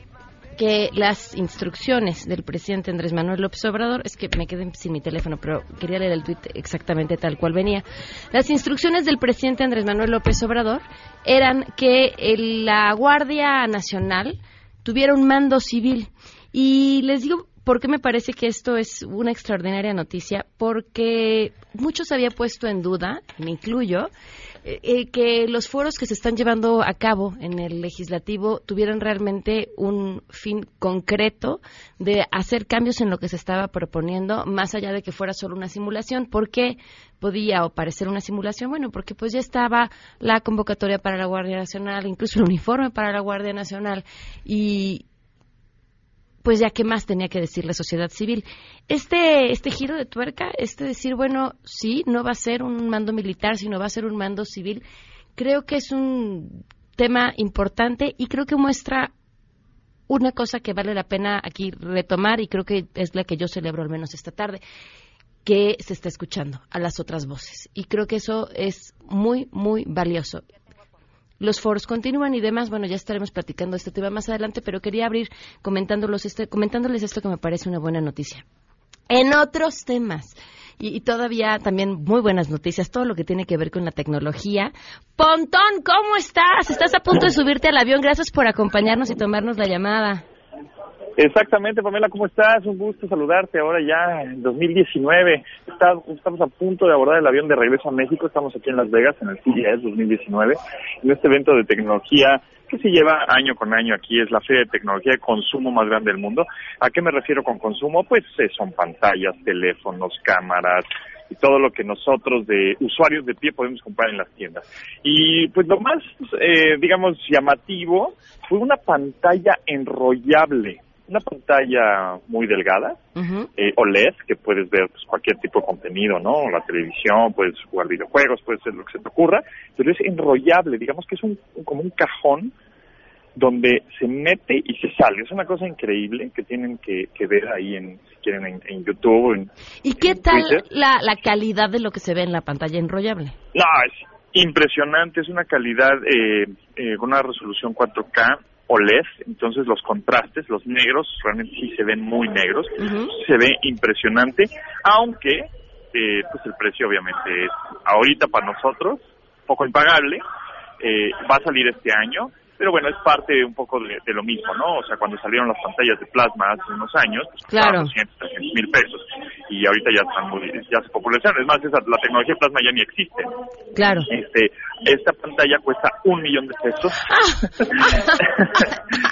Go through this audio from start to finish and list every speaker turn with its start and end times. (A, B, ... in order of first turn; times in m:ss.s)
0:00.6-0:24.1 A
0:24.6-0:45.0 A
0:46.4-0:54.8 A
0:55.4-0:59.1 A
1:00.1-1:04.6 A
1:05.4-1:10.4 A
1:11.4-1:18.4 A
1:19.1-1:30.2 A
1:31.2-2:03.0 B
2:03.2-2:03.5 A
2:03.6-2:12.5 B
2:13.4-2:19.5 B
2:19.8-2:23.4 A
2:20.1-2:20.6 B
2:23.5-2:40.2 B
2:32.8-2:33.1 A
2:40.8-2:53.3 B
2:47.5-2:47.9 A
2:53.8-2:54.1 A
2:54.1-2:57.1 B
2:57.1-2:58.6 A
2:57.7-2:58.6 B